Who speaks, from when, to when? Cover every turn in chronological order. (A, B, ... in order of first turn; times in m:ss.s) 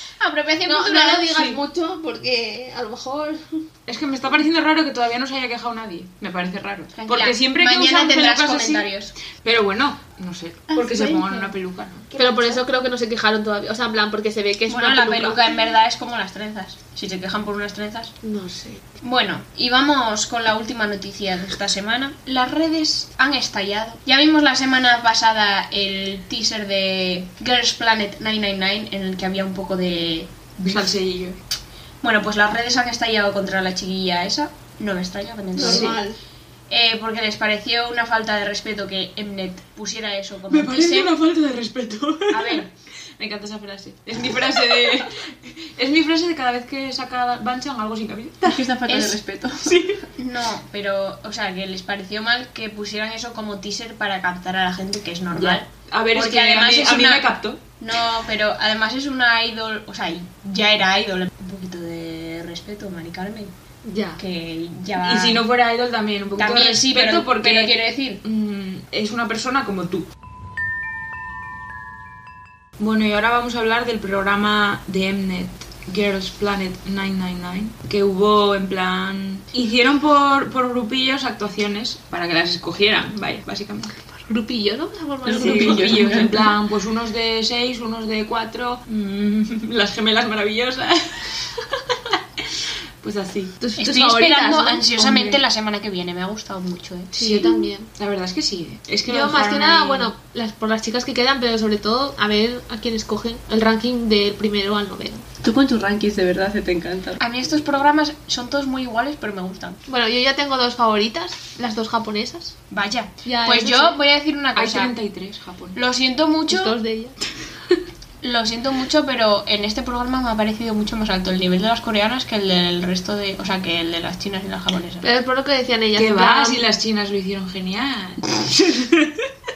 0:00.2-0:01.4 A
0:00.6-0:03.6 B
0:01.3-0:01.6 C
0:03.8-0:08.9 C
0:06.9-0:09.1 A
0:09.4-0:12.1 C
0:12.1-0:12.6 A
0:12.2-0:15.5 B
0:14.7-0:18.1 A
0:18.2-0:18.8 B
0:19.0-0:31.0 A
0:30.6-0:31.4 C
0:32.0-0:36.0 A
0:35.6-0:36.2 B
0:35.6-0:36.0 C
0:36.7-0:41.1 A
0:40.5-0:42.6 C
0:42.3-0:42.7 A
0:43.2-0:48.7 C
0:48.4-0:50.0 D
0:48.9-0:49.2 A
0:49.6-0:50.0 C
0:50.2-1:03.5 A
0:55.3-0:57.6 C
1:03.8-1:04.2 B
1:04.2-1:05.4 A
1:05.0-1:10.1 C
1:06.4-1:08.2 A
1:12.8-1:24.0 C
1:24.2-1:26.0 B
1:25.2-1:26.5 D
1:25.4-1:33.5 C
1:33.6-1:35.4 B
1:33.8-1:37.1 A
1:37.1-1:40.1 C
1:37.1-1:37.9 B
1:39.0-1:45.2 B
1:45.4-1:47.2 D
1:47.2-1:49.8 A
1:49.9-1:52.5 B
1:52.7-1:54.9 A
1:53.2-1:54.0 B
1:54.5-1:55.8 C
1:55.7-1:56.8 A
1:56.5-1:57.2 B
1:58.2-2:05.0 A
2:05.0-2:06.6 B
2:06.0-2:09.3 C